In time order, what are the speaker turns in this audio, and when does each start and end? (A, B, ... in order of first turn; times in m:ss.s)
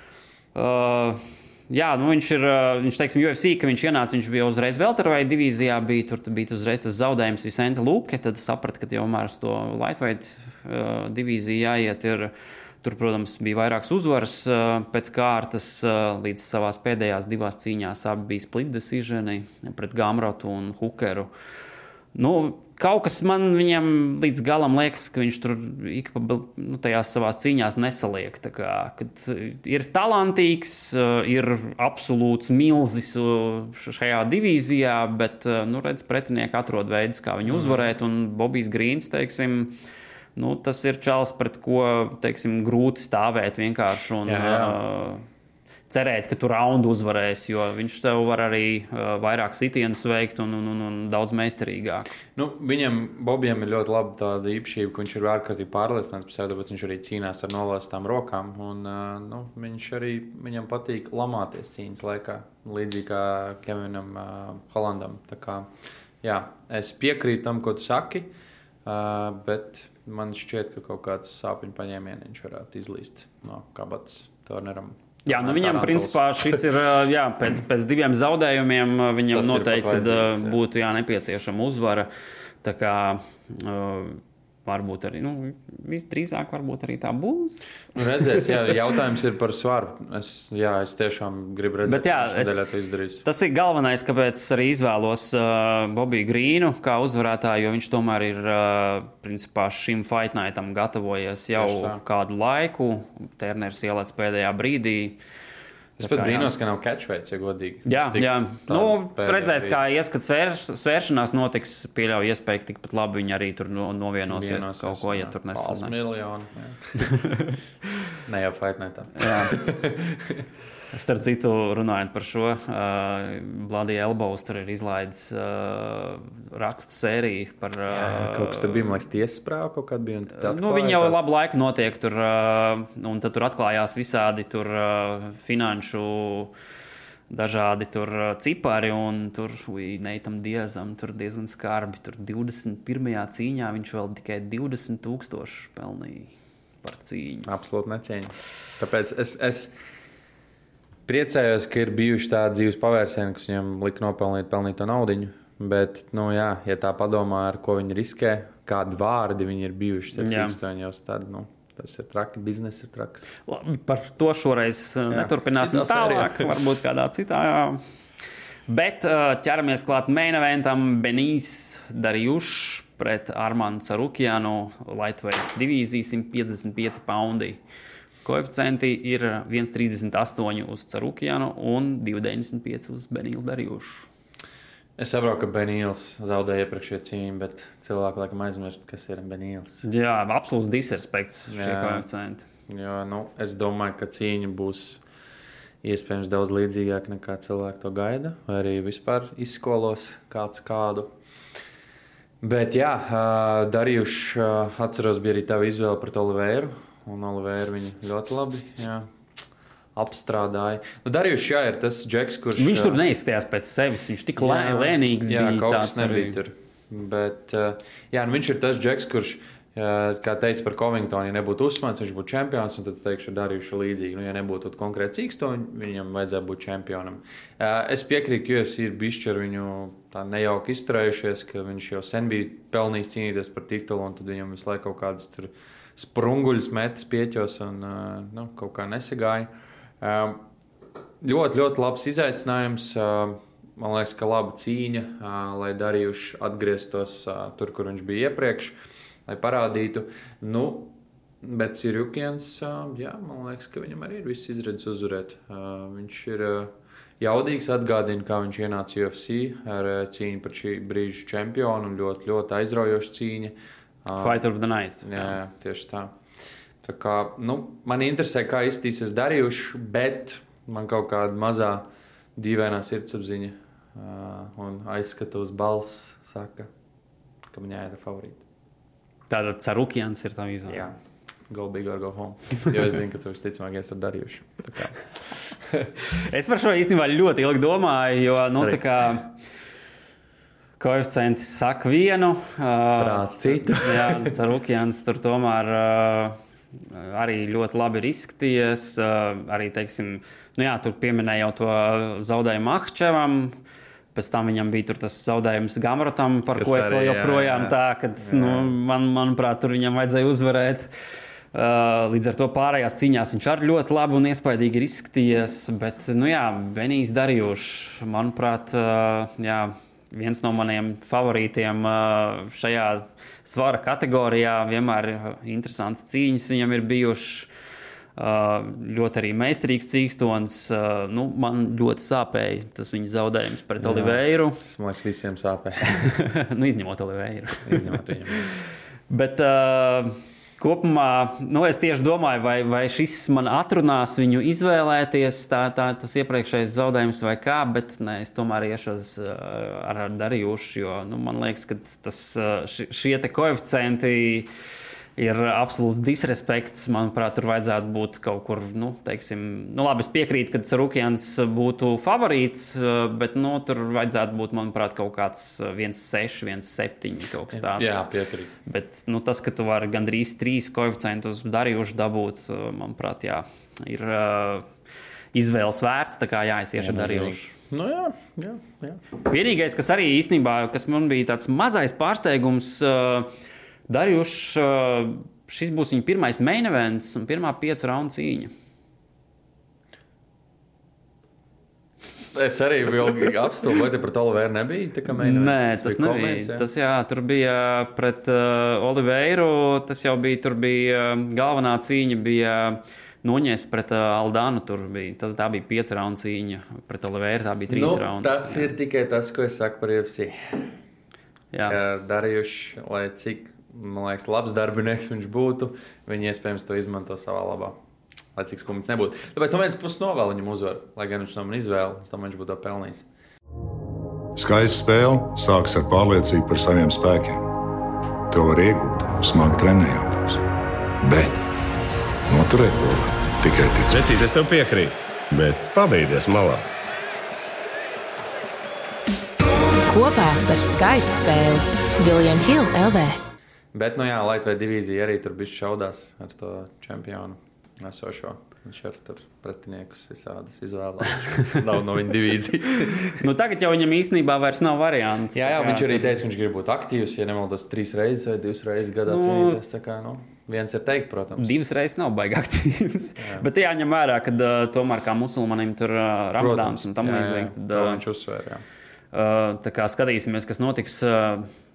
0:00.5-0:12.3 A
0:12.8-0:21.3 A
0:22.1-0:39.7 A
0:37.4-0:37.8 B
0:40.4-0:45.2 A
0:44.2-0:44.8 B
0:45.9-0:52.1 A
0:52.3-1:05.7 B
1:06.2-1:08.3 B
1:08.8-1:16.6 B
1:15.2-1:22.1 A
1:19.3-1:20.6 B
1:22.6-1:27.8 A
1:27.9-1:33.2 B
1:31.9-1:32.6 A
1:33.2-1:45.2 A
1:41.6-1:42.0 B
1:46.0-1:46.5 A
1:46.0-1:49.8 B
1:47.8-1:56.0 A
1:54.3-1:57.1 B
1:57.0-1:57.5 A
1:58.2-2:00.4 B
1:59.2-1:59.6 A
2:00.9-2:09.0 A
2:07.9-2:11.2 B
2:10.4-2:16.5 A
2:17.3-2:27.5 A
2:27.4-2:29.7 B
2:31.0-2:43.3 B
2:40.2-2:40.6 A
2:43.5-2:47.8 A
2:45.1-2:46.5 B
2:48.7-2:57.6 A
2:58.2-3:04.1 A
3:05.0-3:09.8 B
3:09.8-3:12.4 A
3:11.5-3:12.0 B
3:12.7-3:15.0 B
3:15.8-3:21.1 B
3:22.4-3:29.1 B
3:29.9-3:33.0 B
3:32.6-3:36.4 A
3:34.4-3:59.5 B
4:00.0-4:00.4 B
4:01.2-4:24.4 B
4:24.2-4:25.4 A
4:25.0-4:26.1 B
4:26.8-4:36.7 B
4:37.5-4:38.4 B
4:39.3-4:40.9 A
4:40.7-4:41.0 B
4:41.5-4:45.9 B
4:46.1-4:49.4 A
4:48.6-4:48.8 B
4:50.8-4:56.4 A
4:53.0-4:54.3 B
4:56.9-5:03.5 A
5:04.1-5:10.9 A
5:06.5-5:08.7 B
5:11.5-5:27.5 A
5:28.2-5:34.6 A
5:33.8-5:35.9 B
5:35.8-5:54.5 A
5:37.7-5:38.4 B
5:55.2-6:08.1 A
6:07.5-6:08.5 B
6:08.6-6:14.7 A
6:15.3-6:17.5 A
6:16.8-6:19.0 B
6:19.2-6:23.3 A
6:23.9-6:28.5 A
6:32.3-6:36.6 B
6:35.1-6:48.7 A
6:47.7-6:50.7 B
6:51.5-6:51.8 A
6:51.7-6:57.8 B
6:58.3-7:03.0 B
7:04.4-7:07.5 C
7:08.3-7:10.4 C
7:11.0-7:11.4 C
7:12.3-7:14.0 C
7:13.9-7:16.6 D
7:19.9-7:23.2 E
7:23.7-7:33.3 B
7:33.1-7:36.2 A
7:35.3-7:41.5 B
7:39.0-7:39.6 A
7:41.4-7:48.0 A
7:43.2-7:43.5 B
7:46.4-7:48.6 B
7:49.1-7:51.5 A